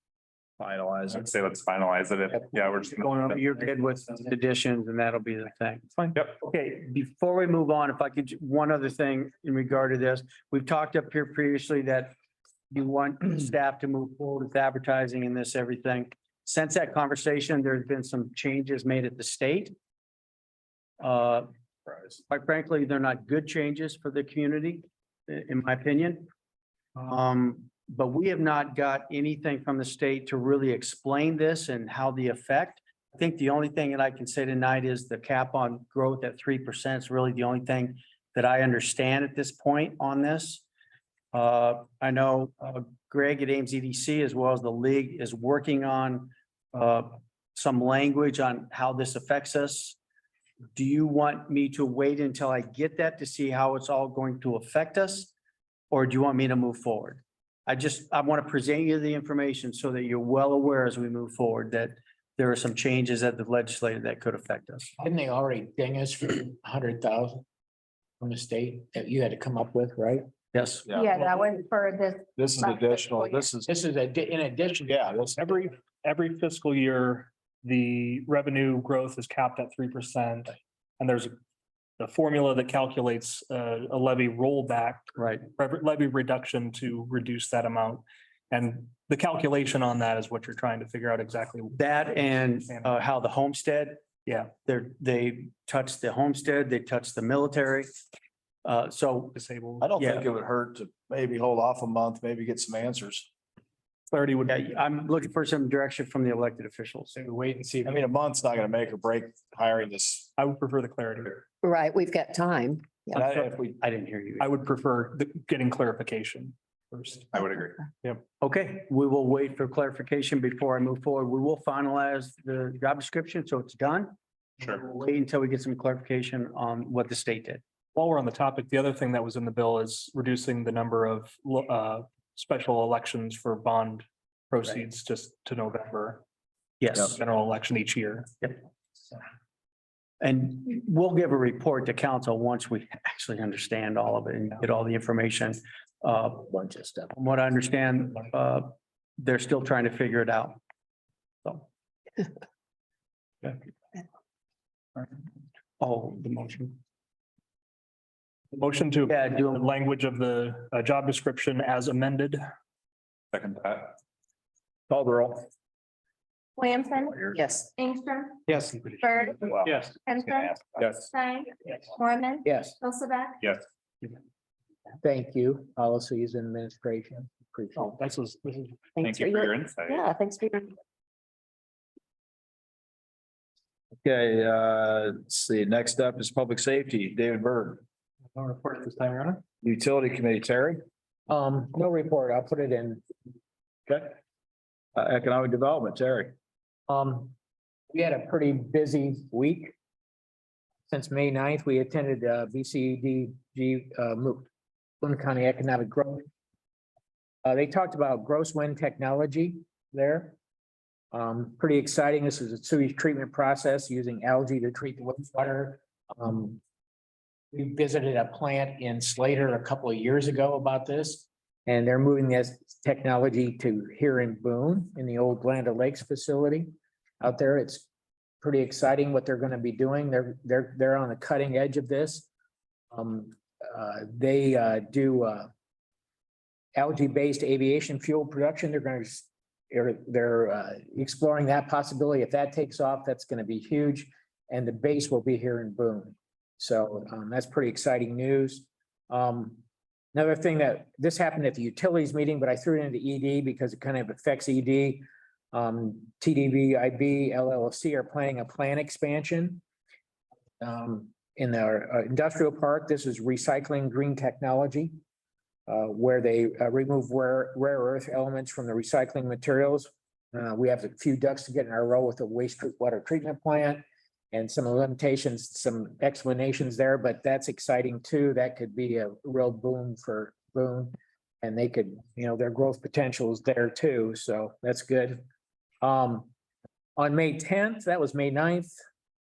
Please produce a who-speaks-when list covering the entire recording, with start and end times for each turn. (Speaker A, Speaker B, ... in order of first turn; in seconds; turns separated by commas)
Speaker A: 0.6-1.2, Speaker B: 1.1-3.4, Speaker C: 3.2-12.1, Speaker C: 12.7-19.7, Speaker C: 21.0-21.5, Speaker C: 22.3-26.3, Speaker C: 26.9-40.6, Speaker C: 41.3-50.0, Speaker C: 50.7-55.3, Speaker C: 55.9-65.0, Speaker D: 65.0-67.4, Speaker D: 68.2-70.2, Speaker C: 70.5-70.8, Speaker A: 70.8-71.1, Speaker E: 70.9-73.5, Speaker A: 72.4-73.7, Speaker D: 73.7-75.1, Speaker A: 74.9-75.3, Speaker F: 75.4-81.3, Speaker F: 82.0-92.0, Speaker C: 85.2-85.5, Speaker C: 91.7-97.9, Speaker F: 92.7-92.9, Speaker C: 98.6-99.3, Speaker F: 99.3-99.9, Speaker A: 99.8-103.3, Speaker C: 100.0-100.2, Speaker F: 104.1-104.6, Speaker C: 104.5-107.1, Speaker D: 107.2-108.0, Speaker A: 107.8-110.3, Speaker F: 110.4-111.4, Speaker G: 111.6-113.2, Speaker A: 113.1-113.8, Speaker C: 113.8-114.5, Speaker F: 114.4-117.3, Speaker B: 117.3-117.8, Speaker C: 118.4-127.6, Speaker F: 127.9-136.2, Speaker C: 136.8-137.2, Speaker F: 137.0-138.3, Speaker C: 140.2-146.5, Speaker D: 146.5-147.1, Speaker C: 147.1-150.6, Speaker C: 155.8-156.8, Speaker F: 158.5-162.4, Speaker C: 159.1-159.7, Speaker B: 163.3-164.0, Speaker A: 164.9-165.5, Speaker E: 166.6-168.4, Speaker G: 167.3-167.6, Speaker C: 168.5-168.9, Speaker E: 169.0-169.5, Speaker F: 169.6-169.9, Speaker E: 170.0-173.4, Speaker B: 170.7-171.1, Speaker D: 172.4-172.8, Speaker D: 175.0-178.0, Speaker F: 177.8-178.8, Speaker B: 179.0-180.1, Speaker G: 179.0-180.7, Speaker A: 184.0-187.8, Speaker F: 188.3-189.4, Speaker A: 189.6-190.8, Speaker D: 191.3-193.0, Speaker A: 193.9-194.1, Speaker A: 194.9-196.3, Speaker D: 196.9-197.3, Speaker D: 197.9-199.7, Speaker D: 200.9-204.5, Speaker D: 205.0-206.3, Speaker D: 207.4-210.4, Speaker D: 211.1-216.6, Speaker D: 217.5-227.9, Speaker D: 228.4-232.3, Speaker D: 232.9-235.5, Speaker D: 236.8-249.6, Speaker D: 250.1-259.6, Speaker D: 260.6-264.9, Speaker D: 265.7-285.2, Speaker D: 285.8-286.3, Speaker D: 287.0-288.7